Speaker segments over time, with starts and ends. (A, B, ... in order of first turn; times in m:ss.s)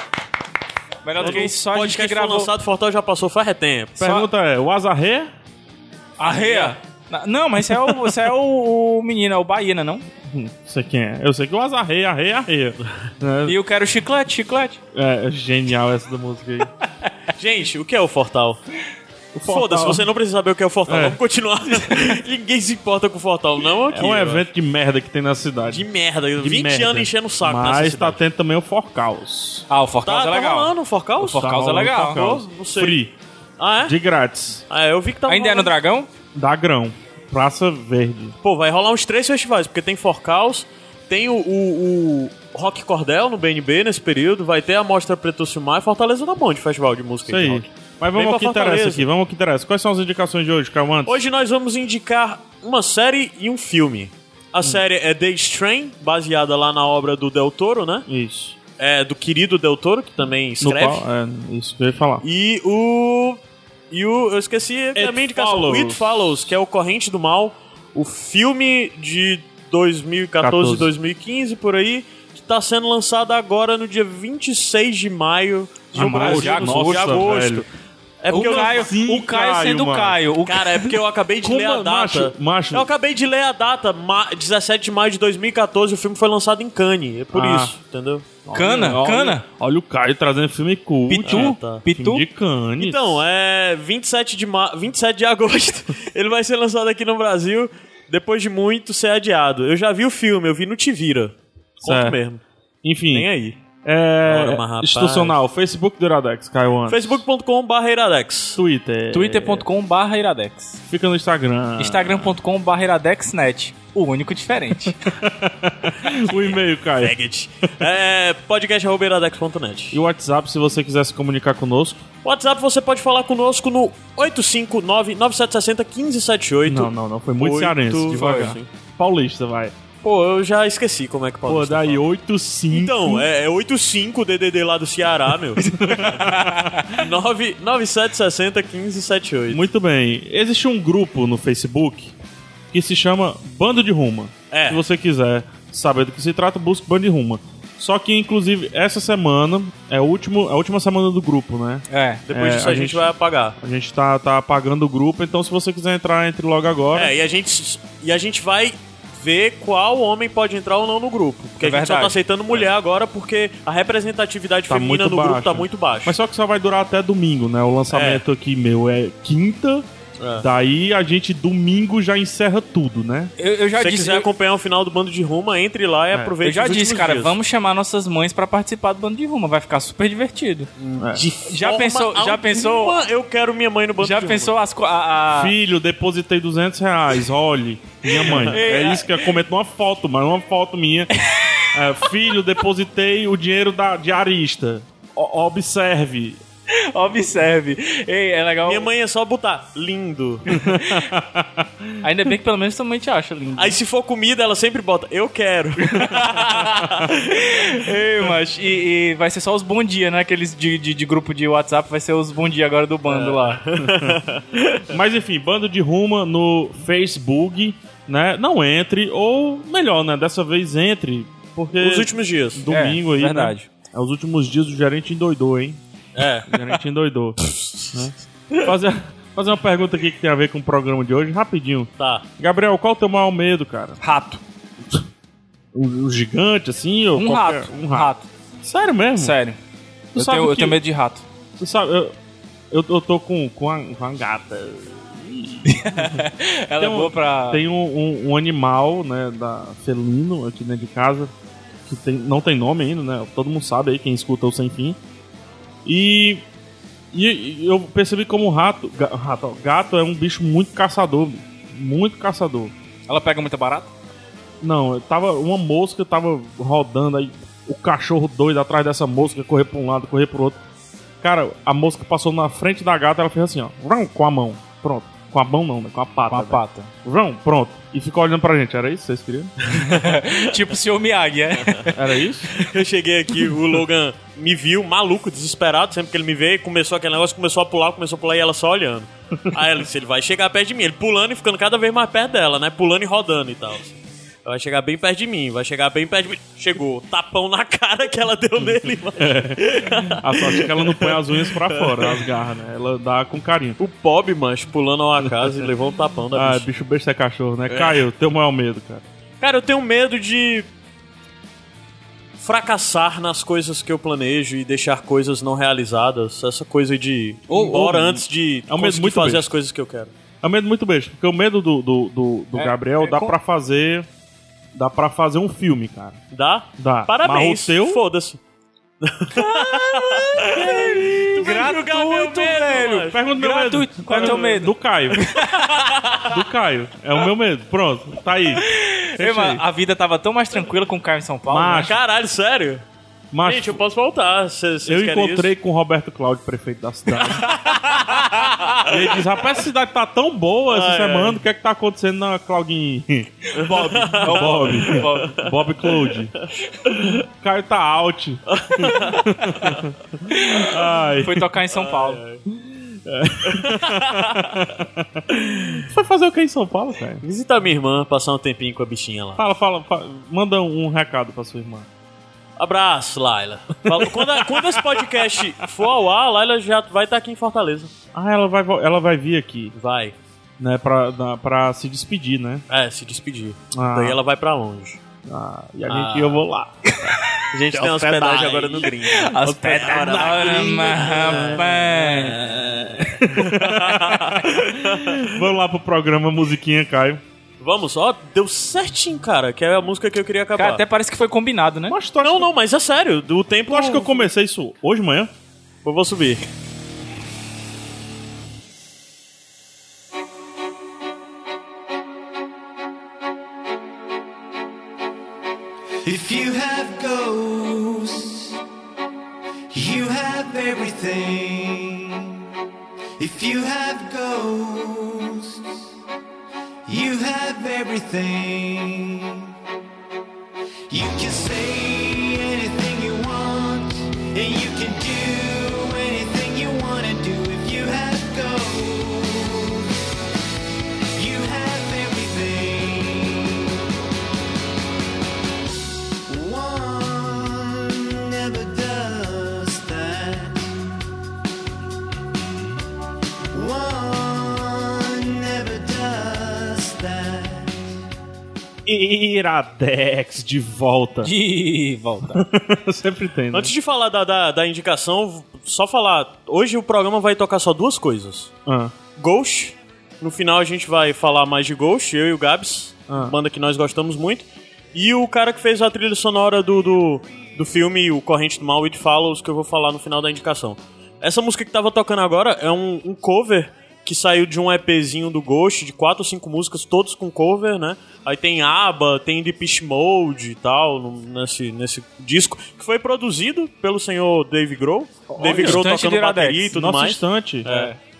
0:01.0-0:02.5 A
0:01.2-0:04.1 B
0:04.0-0:05.3 C
0:06.2-0:10.0 A
0:06.3-0:06.7 B
0:07.7-0:08.1 C
0:10.2-0:13.6 C
0:13.4-0:14.8 A
0:14.9-0:16.7 C
0:17.4-0:18.6 B
0:19.3-0:20.1 C
0:19.4-0:24.5 B
0:20.9-0:21.2 C
0:23.9-0:29.6 C
0:25.7-0:28.2 B
0:29.7-0:32.2 A
0:30.0-0:31.4 B
0:31.4-0:33.1 C
0:32.0-0:33.0 B
0:33.6-0:34.0 B
0:33.8-0:34.6 C
0:34.7-0:35.7 B
0:35.3-0:36.1 A
0:36.3-0:38.3 C
0:38.4-0:49.0 B
0:47.2-0:51.2 C
0:51.0-0:58.0 B
0:58.1-0:58.6 C
0:58.8-1:01.0 B
1:00.6-1:02.2 C
1:02.2-1:17.6 B
1:05.0-1:06.4 C
1:10.4-1:10.9 C
1:15.9-1:17.4 A
1:15.9-1:17.6 C
1:18.2-1:20.2 C
1:18.2-1:18.9 B
1:18.3-1:21.0 A
1:20.4-1:28.9 B
1:21.4-1:22.9 C
1:27.3-1:27.7 C
1:28.5-1:33.2 C
1:28.5-1:29.4 A
1:31.1-1:32.2 A
1:31.2-1:31.8 B
1:32.8-1:42.4 B
1:41.8-1:42.2 C
1:42.8-1:43.3 C
1:43.1-1:43.6 B
1:43.8-1:47.2 C
1:44.2-1:45.4 B
1:46.9-1:48.6 B
1:48.5-1:49.6 C
1:49.1-1:50.8 A
1:50.9-1:52.4 C
1:51.8-1:55.0 A
1:55.1-1:57.2 C
1:57.0-2:00.0 B
1:59.9-2:02.0 C
2:02.2-2:08.6 B
2:06.6-2:09.7 C
2:08.1-2:08.5 A
2:10.0-2:12.0 B
2:11.4-2:13.3 C
2:12.7-2:16.2 B
2:15.6-2:16.9 C
2:15.6-2:17.0 A
2:16.9-2:19.6 B
2:19.5-2:22.1 C
2:22.7-2:37.1 C
2:24.5-2:24.8 B
2:31.9-2:32.2 A
2:32.3-2:33.6 B
2:36.9-2:46.2 B
2:41.6-2:42.2 A
2:44.7-2:49.8 C
2:47.9-2:48.2 B
2:50.2-2:50.5 B
2:50.4-2:53.3 C
2:53.4-2:54.3 A
2:53.8-2:57.4 B
2:56.4-3:00.7 A
3:00.8-3:04.5 B
3:01.0-3:01.3 C
3:01.4-3:03.0 A
3:04.0-3:05.5 A
3:05.3-3:11.1 C
3:08.2-3:09.3 A
3:08.2-3:08.6 B
3:11.2-3:11.7 A
3:11.7-3:16.4 C
3:16.9-3:18.9 A
3:18.6-3:20.6 B
3:20.5-3:22.0 C
3:22.0-3:23.8 A
3:23.6-3:27.1 B
3:25.9-3:33.6 A
3:33.1-3:34.8 B
3:34.9-3:45.8 C
3:41.8-3:42.6 B
3:42.7-3:43.7 A
3:46.1-3:46.5 B
3:46.5-3:54.0 C
3:47.5-3:48.1 B
3:52.0-3:52.3 B
3:54.0-3:54.4 A
3:55.7-3:58.1 C
3:57.2-3:58.3 A
3:58.6-3:59.3 C
3:59.2-3:59.6 A
4:00.1-4:00.8 C
4:00.2-4:01.2 A
4:01.6-4:02.1 C
4:02.7-4:11.3 C
4:05.7-4:07.6 A
4:11.9-4:15.0 C
4:15.8-4:16.4 C
4:17.1-4:22.7 C
4:23.1-4:23.9 A
4:24.6-4:30.6 C
4:31.2-4:39.5 C
4:36.3-4:36.9 A
4:39.7-4:40.4 B
4:39.7-4:42.2 A
4:41.6-4:41.8 B
4:41.9-4:42.6 C
4:42.5-5:02.3 B
4:59.2-5:03.8 C
5:03.8-5:06.7 B
5:05.2-5:05.7 C
5:06.3-5:09.0 C
5:07.7-5:08.0 B
5:09.4-5:10.7 B
5:12.4-5:20.1 B
5:17.5-5:19.5 C
5:20.4-5:24.1 C
5:22.5-5:23.3 A
5:24.7-5:26.2 C
5:26.3-5:28.4 B
5:26.8-5:28.0 C
5:29.0-5:33.2 B
5:29.3-5:36.1 A
5:31.0-5:31.4 C
5:33.1-5:35.3 C
5:34.0-5:34.6 B
5:35.3-5:36.3 B
5:36.2-5:39.6 C
5:38.6-5:41.9 A
5:41.5-5:41.9 C
5:41.8-5:42.8 B
5:43.3-5:43.8 C
5:43.4-5:45.5 B
5:44.8-5:47.5 C
5:47.4-5:48.6 A
5:47.5-5:48.9 B
5:48.8-5:56.3 C
5:50.7-5:51.4 B
5:53.5-5:55.5 B
5:53.6-5:55.4 A
5:56.4-5:57.2 B
5:57.1-6:01.5 C
5:58.5-5:59.8 B
6:00.3-6:02.2 A
6:01.7-6:02.4 B
6:02.5-6:07.2 C
6:03.4-6:04.7 B
6:07.2-6:09.4 B
6:09.4-6:11.9 C
6:12.6-6:17.9 B
6:13.9-6:15.2 C
6:18.1-6:19.7 C
6:19.7-6:20.1 B
6:20.6-6:22.6 C
6:22.7-6:25.0 B
6:23.7-6:24.2 C
6:25.2-6:26.9 C
6:25.9-6:26.4 B
6:26.9-6:32.4 A
6:27.4-6:31.6 B
6:29.8-6:37.2 C
6:33.3-6:35.4 B
6:37.6-6:40.8 B
6:40.6-6:42.0 A
6:41.9-6:42.5 C
6:42.2-6:44.3 B
6:43.7-6:45.3 C
6:45.8-6:46.4 B
6:56.0-6:58.6 D
6:59.7-7:02.4 D
7:03.2-7:05.7 D
7:06.8-7:09.5 D
7:10.9-7:19.9 D
7:21.1-7:23.8 D
7:26.3-7:30.8 D
7:33.5-7:37.9 D
7:38.8-7:41.3 C
7:41.2-7:42.4 A
7:42.3-7:43.7 C
7:43.5-7:48.5 B
7:48.6-7:48.9 C
7:49.2-8:17.9 B
7:53.1-7:53.4 C
8:15.3-8:15.9 C
8:15.4-8:16.7 A
8:16.7-8:17.8 C
8:17.6-8:17.9 A